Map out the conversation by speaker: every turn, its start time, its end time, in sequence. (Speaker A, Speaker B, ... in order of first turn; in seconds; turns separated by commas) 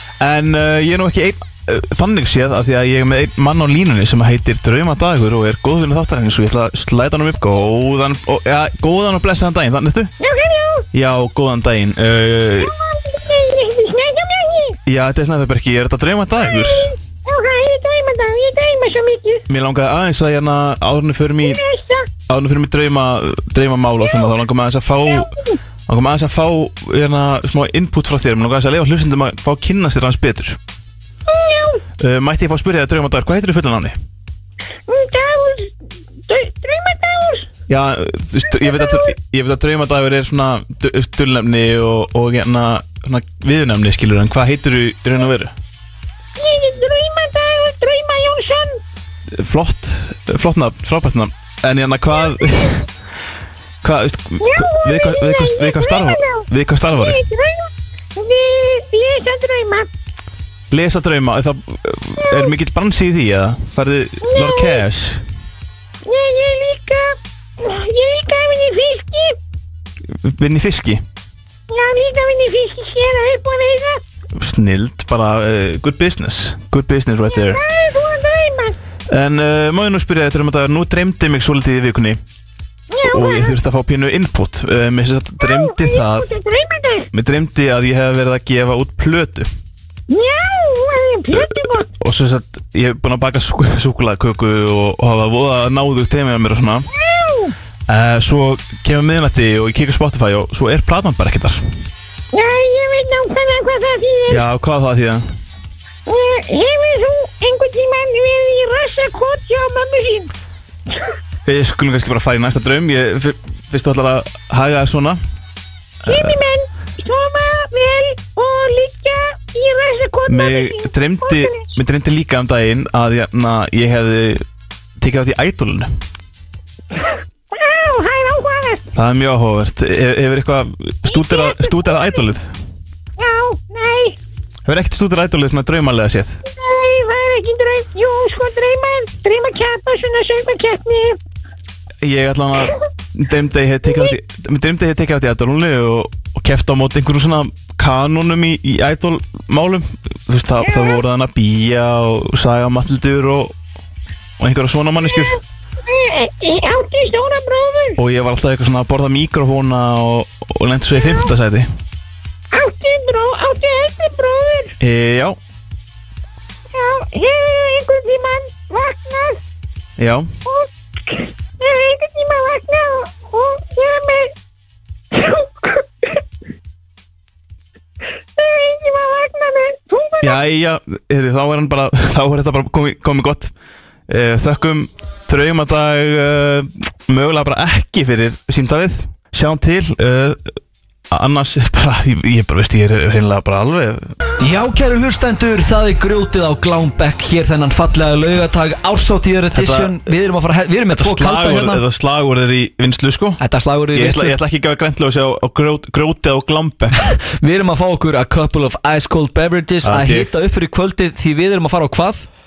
Speaker A: 0.2-10.1, Speaker B: 10.2-10.9, Speaker A: 10.9-12.7, Speaker B: 12.6-14.8, Speaker A: 14.8-16.9, Speaker B: 16.3-19.4, Speaker A: 19.5-21.6, Speaker B: 21.4-22.1, Speaker A: 22.3-25.3, Speaker B: 24.0-24.3, Speaker B: 25.0-25.6, Speaker A: 25.9-30.6, Speaker B: 31.3-31.8, Speaker A: 32.0-34.0, Speaker B: 34.9-35.7, Speaker B: 36.3-37.5, Speaker A: 37.7-45.5, Speaker B: 38.4-39.1, Speaker B: 46.4-48.8, Speaker A: 49.3-52.8, Speaker B: 52.1-52.7, Speaker A: 53.8-57.2, Speaker B: 54.4-59.9, Speaker A: 60.7-65.2, Speaker B: 62.2-62.5, Speaker B: 64.2-64.8, Speaker B: 66.0-69.4, Speaker A: 70.0-71.0, Speaker B: 71.7-74.0, Speaker A: 74.3-77.6, Speaker B: 77.3-78.8, Speaker A: 79.1-82.2, Speaker B: 82.9-83.6, Speaker A: 83.0-86.3, Speaker B: 85.4-87.1, Speaker A: 87.1-89.5, Speaker B: 90.1-91.9, Speaker A: 91.3-96.9, Speaker B: 96.9-97.5, Speaker A: 97.9-101.7, Speaker B: 102.3-104.4, Speaker A: 104.3-105.3, Speaker B: 106.0-110.3, Speaker A: 111.5-115.2, Speaker A: 116.0-116.4, Speaker B: 116.0-121.7, Speaker A: 120.3-124.5, Speaker A: 125.0-125.9, Speaker B: 127.0-128.9, Speaker A: 128.9-132.5, Speaker B: 131.1-132.2, Speaker B: 133.2-134.2, Speaker A: 134.6-136.4, Speaker B: 136.4-141.2, Speaker A: 142.0-153.5, Speaker B: 143.8-144.1, Speaker B: 150.6-151.0, Speaker A: 154.4-155.4, Speaker B: 155.0-158.0, Speaker A: 158.0-161.7, Speaker B: 160.9-161.3, Speaker B: 162.5-164.7, Speaker A: 164.8-165.4, Speaker B: 166.7-169.4, Speaker A: 170.0-170.3, Speaker B: 170.4-174.3, Speaker B: 175.1-175.8, Speaker B: 178.3-180.4, Speaker A: 180.2-183.5, Speaker A: 184.1-190.5, Speaker A: 191.1-194.1, Speaker C: 194.4-201.8, Speaker A: 199.5-200.0, Speaker A: 200.9-203.4, Speaker C: 203.4-204.3, Speaker A: 203.9-207.1, Speaker C: 207.3-212.2, Speaker A: 209.8-210.3